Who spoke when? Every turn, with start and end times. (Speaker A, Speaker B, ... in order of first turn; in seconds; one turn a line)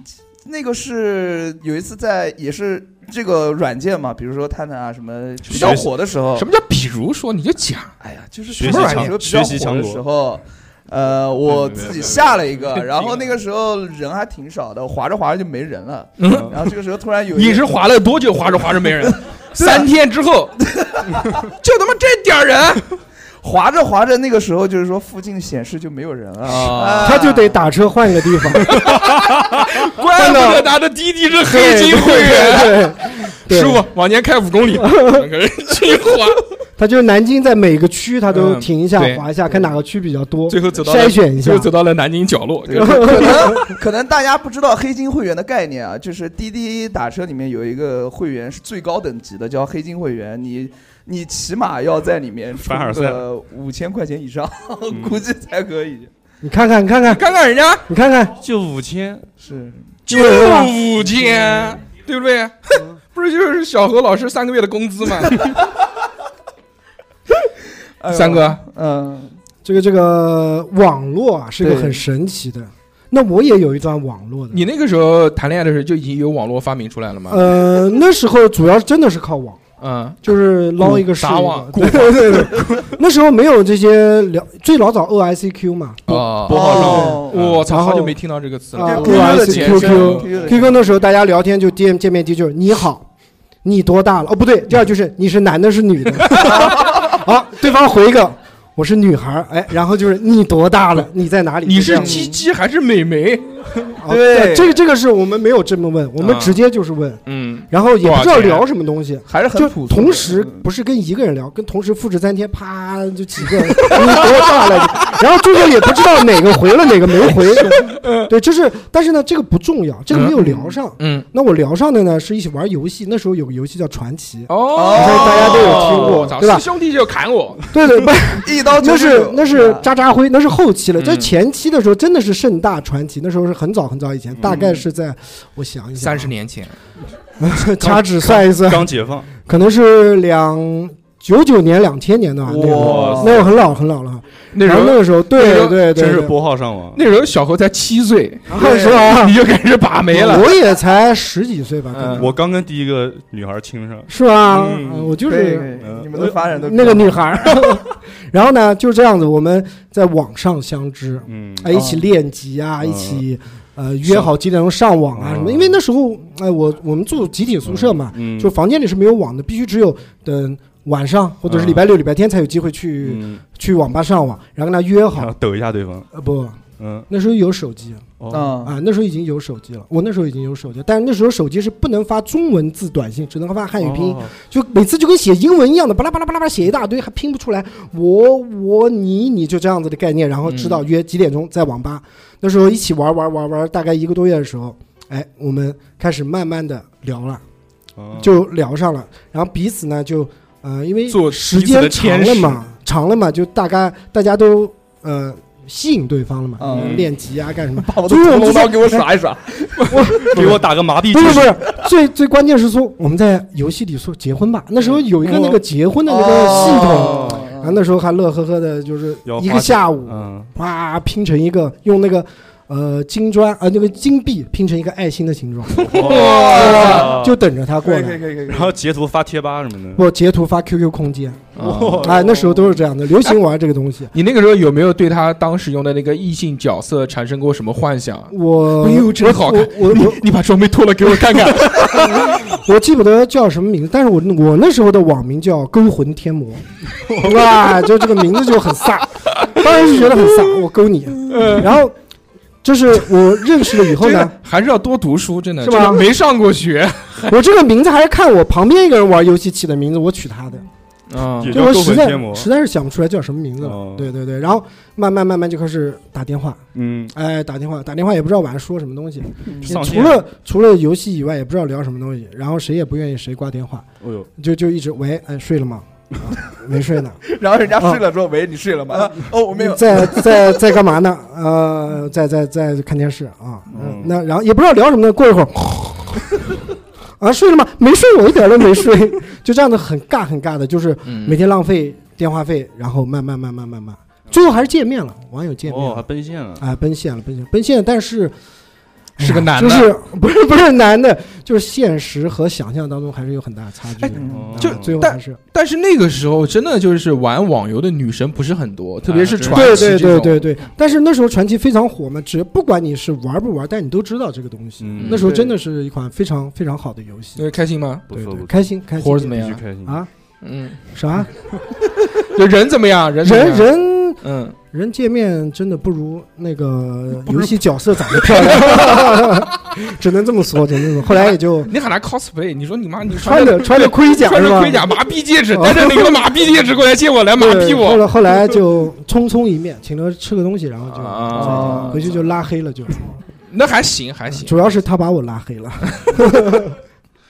Speaker A: 0.4-6.5
Speaker B: 5.5-5.9
Speaker C: 5.5-7.9
Speaker A: 8.0-17.8
Speaker B: 8.5-10.0
Speaker C: 8.6-9.2
Speaker C: 11.5-13.3
Speaker C: 16.2-16.5
Speaker B: 16.3-16.6
Speaker C: 17.3-20.6
Speaker A: 18.8-19.9
Speaker A: 20.7-21.5
Speaker C: 21.5-22.9
Speaker A: 23.4-27.6
Speaker C: 26.4-27.2
Speaker D: 27.0-28.7
Speaker C: 28.6-36.4
Speaker D: 30.0-30.7
Speaker D: 31.4-33.8
Speaker D: 34.8-35.2
Speaker D: 36.8-41.7
Speaker C: 38.3-39.3
Speaker C: 40.5-43.6
Speaker A: 42.6-56.1
Speaker D: 42.8-43.7
Speaker B: 52.6-53.2
Speaker B: 54.9-55.2
Speaker D: 56.4-57.2
Speaker C: 57.1-57.9
Speaker D: 57.9-58.3
Speaker B: 58.4-59.2
Speaker A: 59.4-59.9
Speaker C: 60.1-65.5
Speaker D: 60.1-60.7
Speaker A: 61.0-61.8
Speaker A: 68.0-69.3
Speaker C: 68.1-68.6
Speaker D: 69.6-74.6
Speaker A: 71.6-72.0
Speaker C: 74.5-77.5
Speaker D: 77.3-79.6
Speaker C: 79.8-80.2
Speaker D: 80.2-88.2
Speaker C: 80.8-82.5
Speaker C: 86.1-90.5
Speaker B: 86.1-87.3
Speaker A: 86.5-87.4
Speaker D: 88.7-93.0
Speaker A: 88.8-90.8
Speaker D: 93.6-102.3
Speaker A: 96.4-97.2
Speaker C: 101.6-103.9
Speaker A: 101.9-102.4
Speaker D: 104.0-126.7
Speaker A: 104.1-104.8
Speaker C: 106.2-106.6
Speaker C: 107.2-108.6
Speaker A: 109.3-110.6
Speaker C: 117.2-118.3
Speaker C: 120.1-120.3
Speaker A: 120.3-120.7
Speaker C: 121.0-121.2
Speaker C: 124.5-127.6
Speaker A: 124.7-126.2
Speaker D: 127.7-136.3
Speaker A: 128.4-129.9
Speaker C: 131.0-131.3
Speaker B: 134.3-134.6
Speaker A: 134.5-134.7
Speaker C: 136.0-136.7
Speaker D: 137.4-138.9
Speaker B: 137.8-139.3
Speaker D: 139.4-146.3
Speaker B: 142.5-143.6
Speaker A: 142.6-143.4
Speaker C: 144.5-145.8
Speaker B: 145.9-147.0
Speaker C: 146.9-150.5
Speaker D: 148.5-149.4
Speaker A: 148.5-149.2
Speaker D: 150.1-152.3
Speaker C: 151.9-152.3
Speaker B: 152.2-155.2
Speaker D: 154.1-175.3
Speaker A: 155.2-157.6
Speaker B: 155.8-156.1
Speaker B: 161.3-161.8
Speaker A: 161.7-162.0
Speaker B: 162.8-163.2
Speaker B: 165.1-165.8
Speaker B: 167.7-168.5
Speaker B: 171.5-171.8
Speaker B: 173.0-173.4
Speaker B: 175.1-176.1
Speaker D: 176.1-197.4
Speaker B: 176.8-177.1
Speaker B: 178.2-178.5
Speaker A: 178.3-178.8
Speaker B: 183.8-184.3
Speaker C: 190.4-190.8
Speaker B: 198.0-198.4
Speaker D: 198.2-209.1
Speaker C: 201.1-202.5
Speaker B: 201.6-202.4
Speaker A: 206.6-207.1
Speaker B: 206.7-207.1
Speaker A: 207.7-210.4
Speaker D: 209.8-228.2
Speaker B: 210.3-211.6
Speaker A: 214.9-217.8
Speaker B: 216.4-217.4
Speaker B: 219.2-220.5
Speaker B: 225.8-227.3
Speaker A: 226.0-227.2
Speaker A: 227.8-228.7
Speaker B: 228.5-230.0
Speaker D: 229.9-234.1
Speaker C: 231.6-232.1
Speaker B: 231.6-232.5
Speaker C: 234.1-242.3
Speaker D: 238.3-240.2
Speaker D: 241.0-251.9
Speaker B: 247.1-247.4
Speaker C: 251.3-251.7
Speaker D: 252.6-254.3
Speaker C: 253.9-257.4
Speaker D: 255.6-256.1
Speaker D: 257.3-260.7
Speaker C: 261.1-261.6
Speaker B: 261.4-262.5
Speaker D: 261.4-278.0
Speaker B: 263.6-264.1
Speaker B: 266.7-267.1
Speaker A: 269.5-269.8
Speaker B: 269.6-270.2
Speaker B: 274.0-274.3
Speaker A: 277.3-280.5
Speaker D: 278.9-286.6
Speaker B: 283.7-284.1
Speaker D: 287.2-296.1
Speaker C: 291.0-291.4
Speaker B: 295.6-296.6
Speaker D: 296.6-298.3
Speaker D: 299.2-305.4
Speaker C: 299.2-299.9
Speaker C: 304.0-310.5
Speaker A: 304.1-304.5
Speaker B: 304.3-304.9
Speaker B: 309.1-309.9
Speaker D: 309.5-317.4
Speaker B: 314.8-315.3
Speaker A: 315.1-315.6
Speaker C: 317.4-318.0
Speaker B: 318.1-318.7
Speaker D: 318.1-320.1
Speaker C: 319.0-319.6
Speaker B: 319.3-320.0
Speaker C: 320.4-320.8
Speaker D: 320.9-321.6
Speaker C: 322.3-324.6
Speaker D: 323.2-331.7
Speaker C: 331.1-338.1
Speaker D: 333.1-335.0
Speaker D: 335.5-336.2
Speaker D: 337.4-343.1
Speaker C: 340.9-342.1
Speaker A: 341.3-342.0
Speaker B: 341.5-341.8
Speaker C: 343.5-344.7
Speaker D: 344.3-346.8